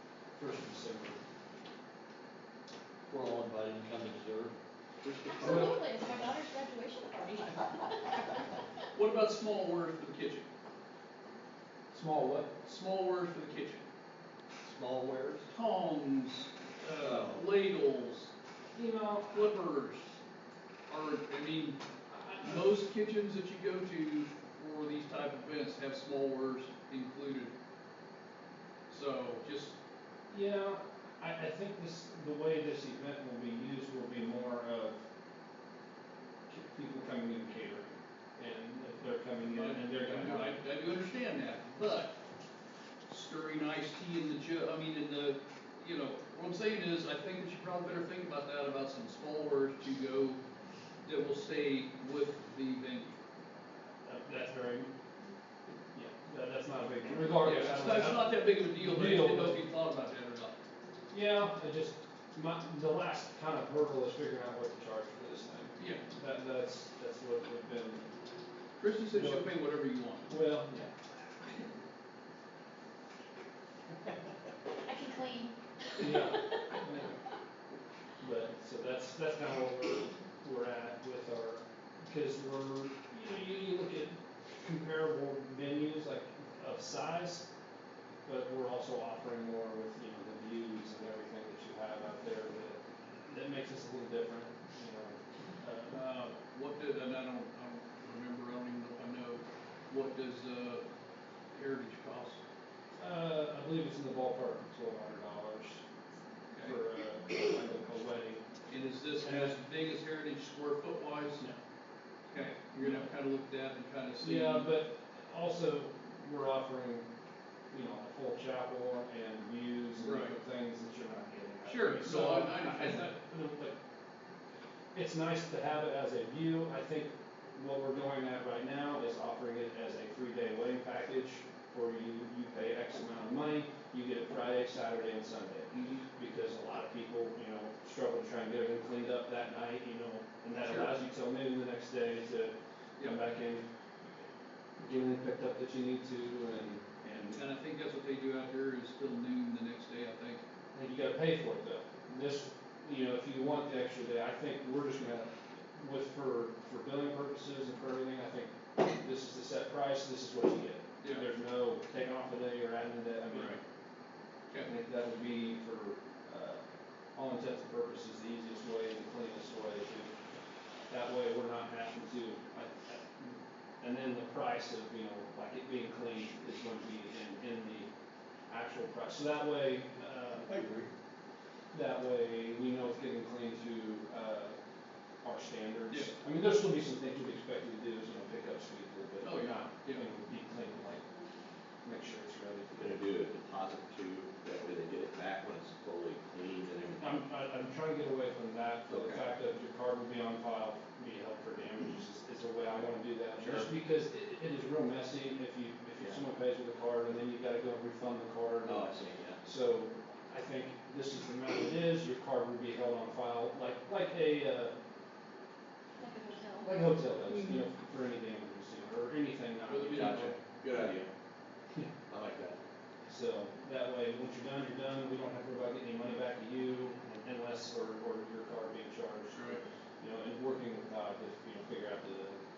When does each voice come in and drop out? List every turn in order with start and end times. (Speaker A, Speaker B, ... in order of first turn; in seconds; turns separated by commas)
Speaker A: 0.3-1.2, Speaker B: 3.1-4.5, Speaker C: 5.2-8.3, Speaker A: 5.4-5.7, Speaker D: 8.9-10.4, Speaker A: 11.9-12.5, Speaker D: 12.6-13.8, Speaker B: 14.6-15.5, Speaker D: 15.5-18.3, Speaker B: 17.1-17.4, Speaker E: 17.1-17.3, Speaker A: 18.7-19.4, Speaker D: 19.2-20.2, Speaker D: 20.9-21.8, Speaker A: 22.1-22.6, Speaker D: 22.3-27.5, Speaker D: 28.9-29.7, Speaker A: 30.3-35.0, Speaker A: 36.5-40.5, Speaker D: 39.5-42.1, Speaker D: 43.1-50.4, Speaker D: 51.0-53.2, Speaker A: 54.0-54.9, Speaker A: 55.9-59.6, Speaker D: 57.4-60.6, Speaker A: 61.1-68.0, Speaker D: 65.8-66.0, Speaker D: 68.8-70.4, Speaker A: 69.1-69.5, Speaker A: 70.3-70.9, Speaker C: 74.8-76.6, Speaker A: 76.0-77.2, Speaker A: 78.2-87.5, Speaker A: 88.2-96.0, Speaker D: 95.9-100.8, Speaker D: 101.5-102.4, Speaker A: 103.0-105.8, Speaker A: 106.6-108.4, Speaker D: 108.7-111.4, Speaker A: 109.2-109.5, Speaker D: 112.3-114.7, Speaker A: 112.8-113.1, Speaker A: 114.2-117.1, Speaker A: 117.7-123.8, Speaker D: 120.0-120.3, Speaker D: 121.6-123.2, Speaker A: 124.9-143.6, Speaker D: 140.6-140.9, Speaker A: 144.8-147.4, Speaker D: 147.3-150.4, Speaker A: 150.7-163.6, Speaker D: 163.3-163.6, Speaker A: 164.6-166.6, Speaker A: 167.1-170.1, Speaker A: 170.9-177.9, Speaker A: 178.5-180.5, Speaker E: 180.5-180.8, Speaker A: 181.7-184.6, Speaker A: 185.2-191.1, Speaker D: 189.2-190.1, Speaker A: 191.8-193.0, Speaker E: 192.8-197.2, Speaker A: 197.0-214.7, Speaker E: 198.9-199.2, Speaker E: 203.4-203.7, Speaker E: 208.6-209.4, Speaker C: 216.0-216.7, Speaker A: 216.6-220.9, Speaker D: 217.3-217.6, Speaker D: 219.7-220.3, Speaker E: 219.9-221.1, Speaker E: 222.1-222.6, Speaker A: 223.1-232.4, Speaker D: 229.3-229.6